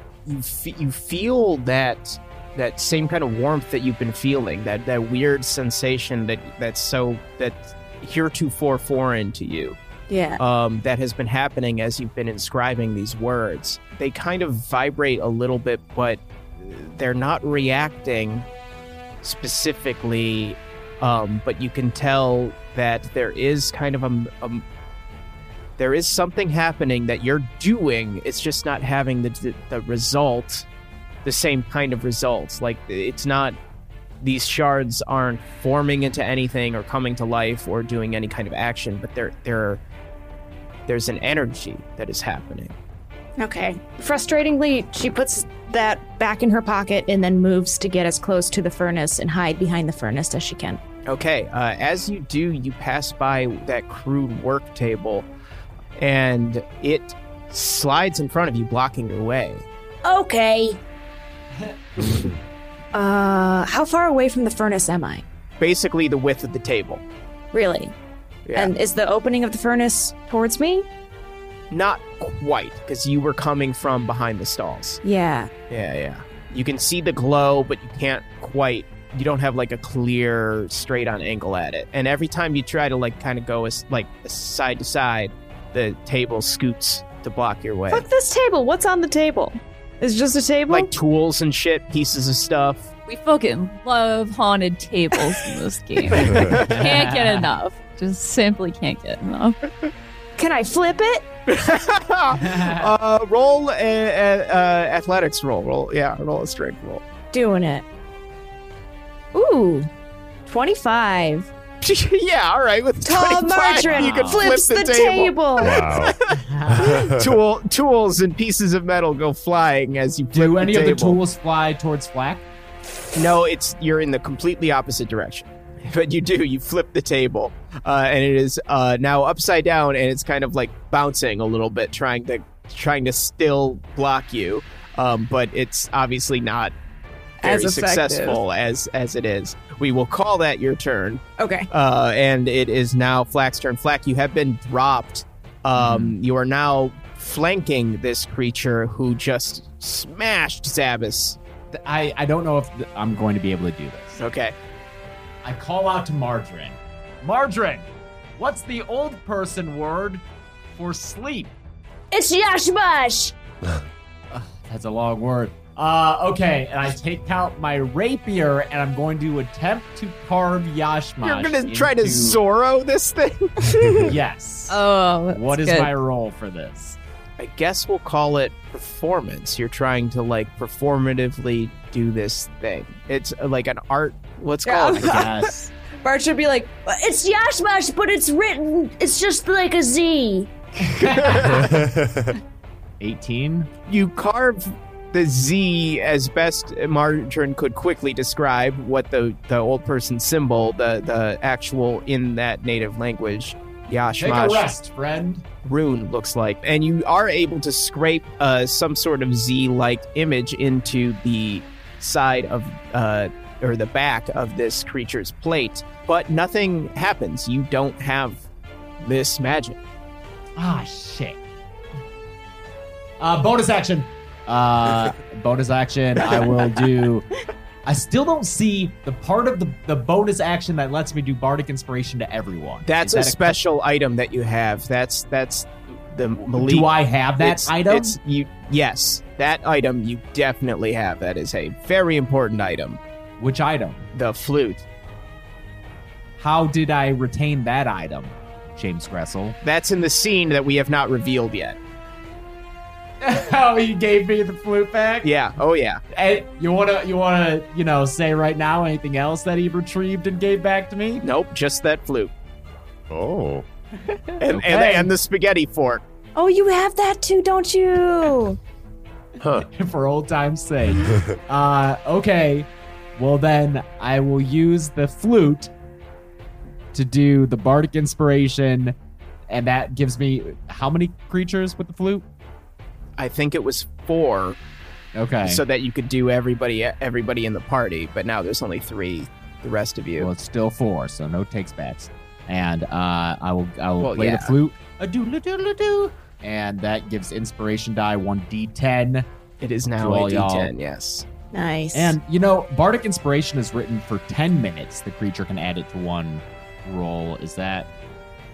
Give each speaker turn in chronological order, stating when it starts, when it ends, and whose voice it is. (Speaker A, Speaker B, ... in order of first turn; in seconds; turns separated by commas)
Speaker A: 0.2-9.8, Speaker B: 10.1-10.4, Speaker A: 10.4-18.5, Speaker A: 19.2-24.6, Speaker A: 25.8-30.7, Speaker A: 31.2-33.5, Speaker A: 34.2-39.8, Speaker A: 40.9-42.8, Speaker B: 43.4-50.8, Speaker A: 51.0-55.3, Speaker A: 56.0-59.6, Speaker B: 60.1-60.7, Speaker C: 61.6-62.3, Speaker B: 62.9-65.2, Speaker A: 65.6-67.0, Speaker B: 67.5-67.9, Speaker A: 68.5-68.7, Speaker B: 68.5-70.8, Speaker A: 71.7-75.0, Speaker B: 75.0-75.5, Speaker A: 75.7-88.0, Speaker B: 87.9-90.9, Speaker A: 90.7-92.8, Speaker D: 93.1-99.6, Speaker A: 96.1-96.8, Speaker C: 96.3-97.5, Speaker B: 100.4-101.2, Speaker A: 101.5-107.0, Speaker C: 102.4-102.9, Speaker B: 107.3-107.8, Speaker B: 109.3-109.9, Speaker B: 110.5-111.5, Speaker A: 111.8-121.2, Speaker B: 113.0-115.8, Speaker C: 113.8-114.5, Speaker E: 115.6-117.4, Speaker C: 116.3-116.9, Speaker C: 120.3-122.4, Speaker A: 123.1-136.7, Speaker A: 137.4-151.4, Speaker B: 137.4-138.4, Speaker B: 141.4-141.7, Speaker C: 145.8-146.2, Speaker C: 151.7-154.2, Speaker A: 154.2-154.5, Speaker C: 155.4-157.8, Speaker C: 158.4-161.5, Speaker B: 162.1-163.3, Speaker C: 164.3-172.4, Speaker A: 171.2-174.1, Speaker C: 174.0-174.8, Speaker D: 174.7-175.9, Speaker C: 175.3-177.0, Speaker A: 177.4-185.3, Speaker B: 184.6-185.4, Speaker C: 185.0-185.7, Speaker B: 186.0-190.5, Speaker C: 190.9-191.7, Speaker A: 191.1-191.6, Speaker E: 191.3-192.3, Speaker C: 193.0-193.7, Speaker A: 193.9-204.7, Speaker C: 204.2-205.4, Speaker A: 205.6-218.4, Speaker A: 219.0-219.8, Speaker C: 220.6-221.4, Speaker C: 223.2-227.2, Speaker C: 227.8-233.6, Speaker A: 232.8-243.0, Speaker C: 236.5-238.2, Speaker C: 243.4-244.1, Speaker A: 244.1-244.8, Speaker C: 246.4-249.6, Speaker A: 249.6-251.8, Speaker C: 253.2-255.3, Speaker A: 255.2-256.0, Speaker C: 256.1-261.2, Speaker A: 261.2-262.3, Speaker E: 263.1-263.6, Speaker C: 264.1-265.1, Speaker A: 264.4-266.0, Speaker B: 266.4-268.6, Speaker E: 269.4-269.7, Speaker C: 269.6-275.7, Speaker E: 271.0-271.4, Speaker C: 276.9-278.9, Speaker C: 279.5-282.2, Speaker A: 283.2-284.6, Speaker C: 285.1-285.6, Speaker A: 285.4-290.3, Speaker C: 290.2-299.2, Speaker A: 294.0-294.5, Speaker A: 299.6-301.2, Speaker C: 300.0-300.7, Speaker B: 301.5-302.2, Speaker C: 301.9-307.9